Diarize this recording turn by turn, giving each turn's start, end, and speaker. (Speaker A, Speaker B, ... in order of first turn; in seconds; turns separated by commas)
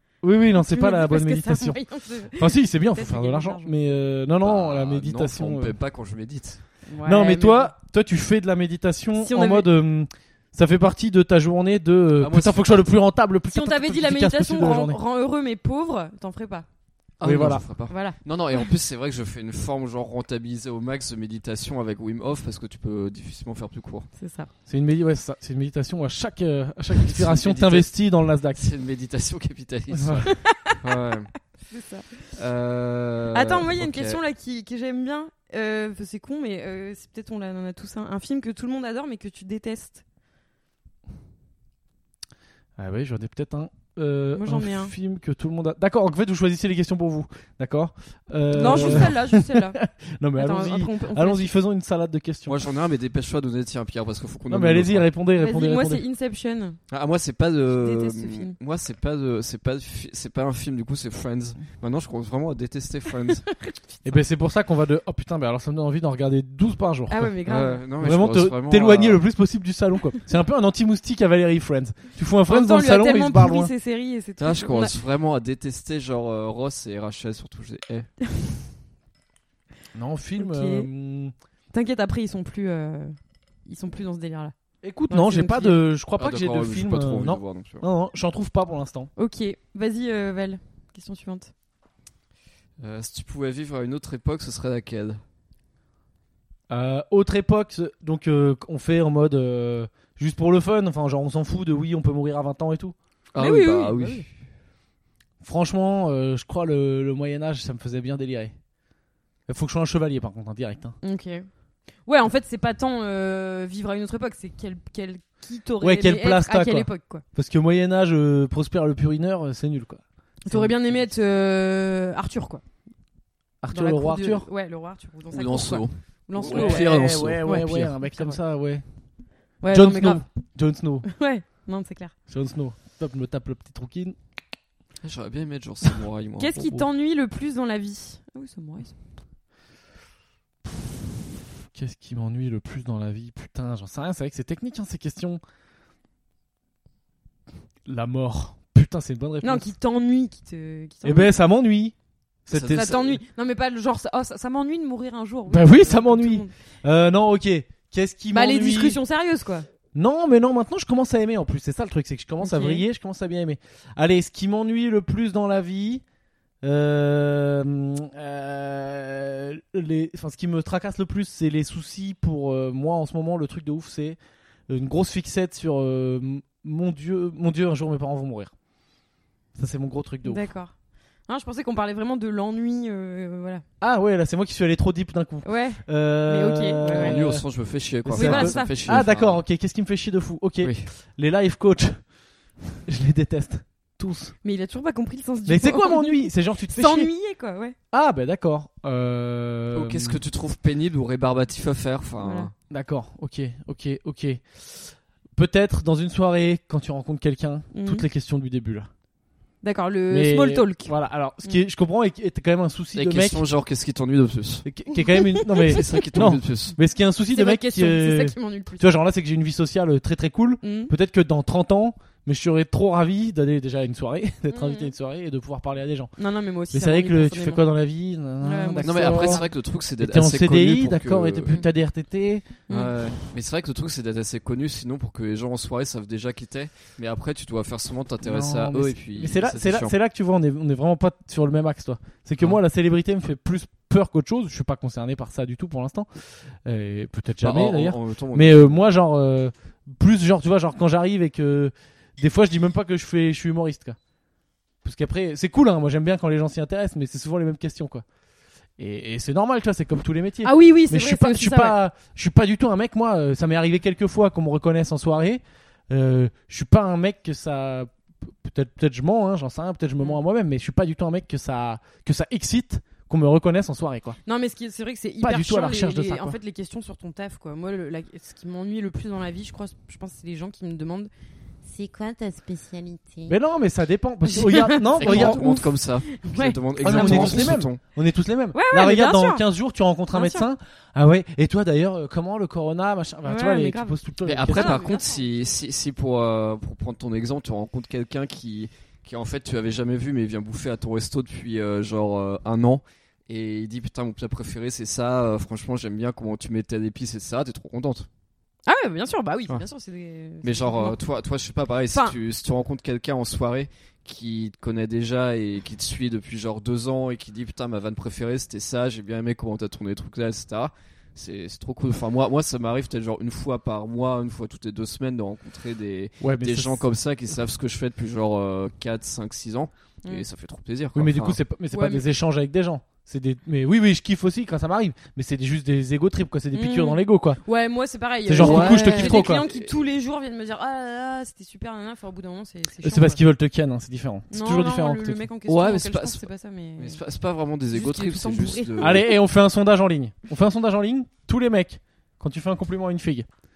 Speaker A: 0.2-5.7, Speaker B: 0.7-3.7, Speaker C: 4.4-6.6, Speaker B: 6.9-7.7, Speaker A: 7.0-15.0, Speaker B: 9.2-9.7, Speaker C: 12.2-12.9, Speaker B: 13.5-16.6, Speaker C: 17.2-24.1, Speaker A: 17.2-17.6, Speaker B: 17.9-18.2, Speaker B: 24.1-24.5, Speaker A: 24.7-28.7, Speaker C: 27.0-27.9, Speaker C: 28.5-31.5, Speaker A: 29.9-30.3, Speaker B: 30.2-30.8, Speaker B: 31.7-32.2, Speaker C: 32.3-34.2, Speaker B: 33.3-40.0, Speaker A: 42.8-52.6, Speaker B: 44.3-44.9, Speaker B: 48.5-49.8, Speaker C: 48.5-49.1, Speaker B: 50.4-51.5, Speaker C: 52.5-55.1, Speaker A: 54.5-56.0, Speaker B: 55.4-56.8, Speaker C: 56.9-63.5, Speaker B: 57.7-58.5, Speaker B: 63.5-63.7, Speaker A: 64.0-67.3, Speaker B: 67.1-67.8, Speaker C: 67.4-69.2, Speaker A: 68.0-73.7, Speaker B: 72.5-74.9, Speaker C: 74.4-78.1, Speaker A: 79.9-81.3, Speaker B: 80.3-80.9, Speaker B: 81.7-84.5, Speaker A: 84.8-89.1, Speaker B: 85.1-85.8, Speaker C: 86.2-87.8, Speaker B: 89.2-91.5, Speaker C: 92.8-95.2, Speaker A: 96.7-102.9, Speaker C: 103.3-104.3, Speaker B: 103.4-104.3, Speaker A: 105.4-108.5, Speaker A: 109.5-111.0, Speaker B: 111.0-111.5, Speaker B: 112.0-117.2, Speaker A: 115.8-121.0, Speaker B: 120.4-122.6, Speaker A: 123.6-124.5, Speaker B: 123.7-128.4, Speaker C: 125.3-127.9, Speaker A: 126.4-128.8, Speaker B: 129.6-130.2, Speaker A: 129.7-131.1, Speaker B: 131.1-132.1, Speaker A: 132.3-134.2, Speaker C: 135.0-136.6, Speaker B: 136.4-139.0, Speaker A: 136.6-136.8, Speaker A: 141.7-145.4, Speaker A: 147.8-149.7, Speaker B: 149.4-151.3, Speaker A: 151.0-151.9, Speaker A: 152.4-153.0, Speaker C: 152.5-153.2, Speaker B: 152.7-156.5, Speaker A: 155.5-159.0, Speaker B: 158.3-159.7, Speaker A: 159.9-166.0, Speaker B: 162.4-162.8, Speaker A: 166.6-178.5, Speaker A: 179.6-180.5, Speaker B: 180.2-180.7, Speaker B: 181.3-183.6, Speaker A: 183.8-187.4, Speaker B: 185.4-187.2, Speaker C: 186.9-189.4, Speaker A: 188.0-192.0, Speaker B: 188.1-188.8, Speaker C: 190.6-190.9, Speaker A: 192.7-194.3, Speaker B: 194.4-197.8, Speaker A: 195.5-197.1, Speaker A: 197.9-200.2, Speaker C: 199.7-202.5, Speaker B: 202.2-202.5, Speaker A: 202.7-208.9, Speaker B: 207.7-208.1, Speaker B: 209.6-211.6, Speaker A: 210.1-213.4, Speaker C: 212.9-214.7, Speaker A: 214.6-226.1, Speaker B: 215.1-216.0, Speaker C: 215.6-216.8, Speaker B: 217.3-218.9, Speaker B: 220.6-220.9, Speaker B: 224.5-224.9, Speaker B: 226.2-227.7, Speaker A: 226.7-232.5, Speaker B: 228.4-229.5, Speaker C: 228.8-231.6, Speaker B: 232.7-232.9, Speaker C: 232.7-239.9, Speaker A: 238.2-254.0, Speaker C: 247.4-248.8, Speaker A: 254.8-258.0, Speaker A: 258.8-274.2, Speaker B: 260.4-261.8, Speaker B: 274.2-281.1, Speaker A: 275.2-276.4, Speaker B: 281.6-283.3, Speaker A: 283.3-285.4, Speaker B: 284.2-287.5, Speaker C: 284.9-287.8, Speaker A: 286.8-294.9, Speaker B: 288.5-289.4, Speaker B: 290.1-290.5, Speaker B: 293.2-293.9, Speaker C: 294.2-308.1, Speaker B: 294.4-295.6, Speaker B: 308.6-311.0, Speaker C: 310.4-331.4, Speaker A: 326.2-326.8, Speaker A: 330.9-337.4, Speaker B: 331.7-332.0, Speaker B: 336.5-343.2, Speaker A: 338.2-339.4, Speaker C: 338.3-339.8, Speaker A: 342.8-345.2, Speaker B: 344.3-347.0, Speaker C: 345.5-346.3, Speaker C: 346.8-349.1, Speaker B: 347.7-349.2, Speaker A: 348.8-353.3